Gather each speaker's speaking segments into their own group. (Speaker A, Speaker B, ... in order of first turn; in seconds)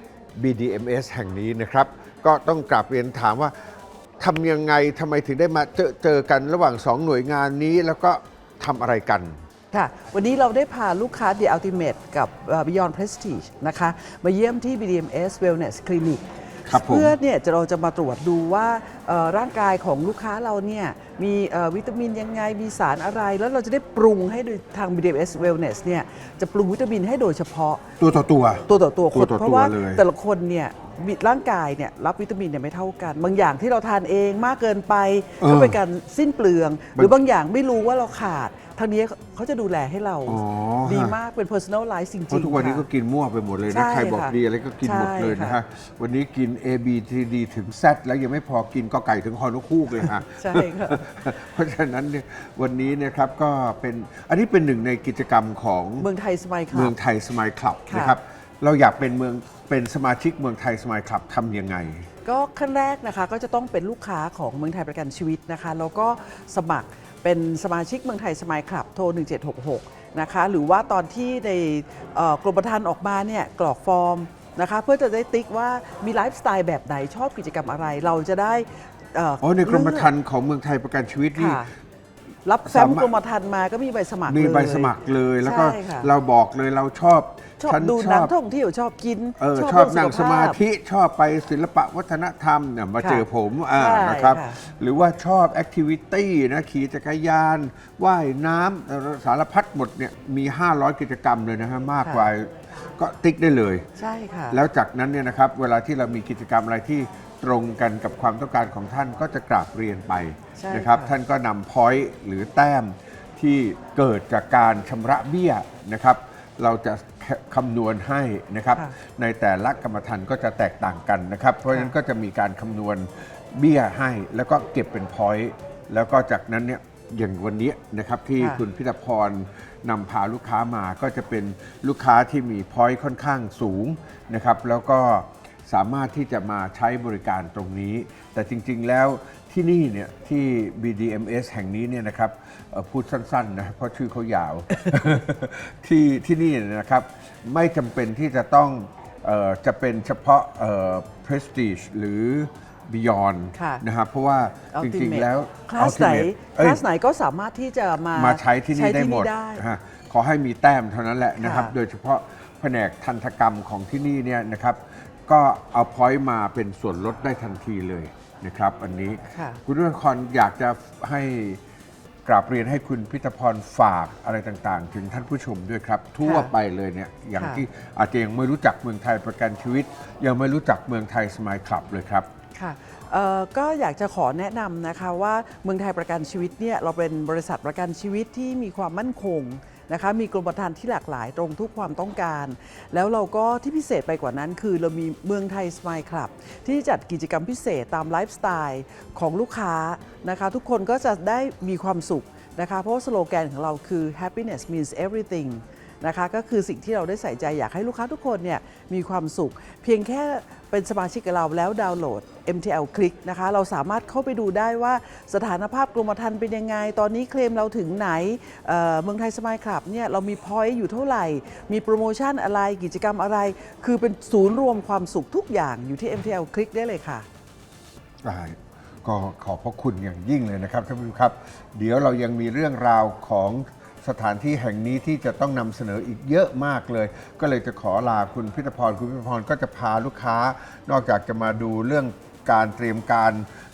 Speaker A: 0.4-9.4, 16.7-17.1, 28.0-30.0, 35.4-35.8, 40.3-41.2, 42.3-56.1, 56.7-62.1, 79.4-81.7, 82.7-83.1, 84.3-88.3, 89.4-103.9, 104.5-156.8, 158.1-171.6, 172.2-182.3, 228.2-243.5
Speaker B: 9.7-27.8, 28.7-42.9, 43.7-45.6, 50.3-51.0, 56.0-57.0, 57.9-58.2, 62.2-80.1, 81.3-81.7, 82.5-86.1, 87.6-90.6, 93.0-94.6, 102.0-102.3, 104.0-104.6, 110.5-111.2, 153.6-153.8, 154.7-159.6, 161.4-161.8, 169.3-169.6, 176.2-176.5, 177.4-177.6, 182.6-227.3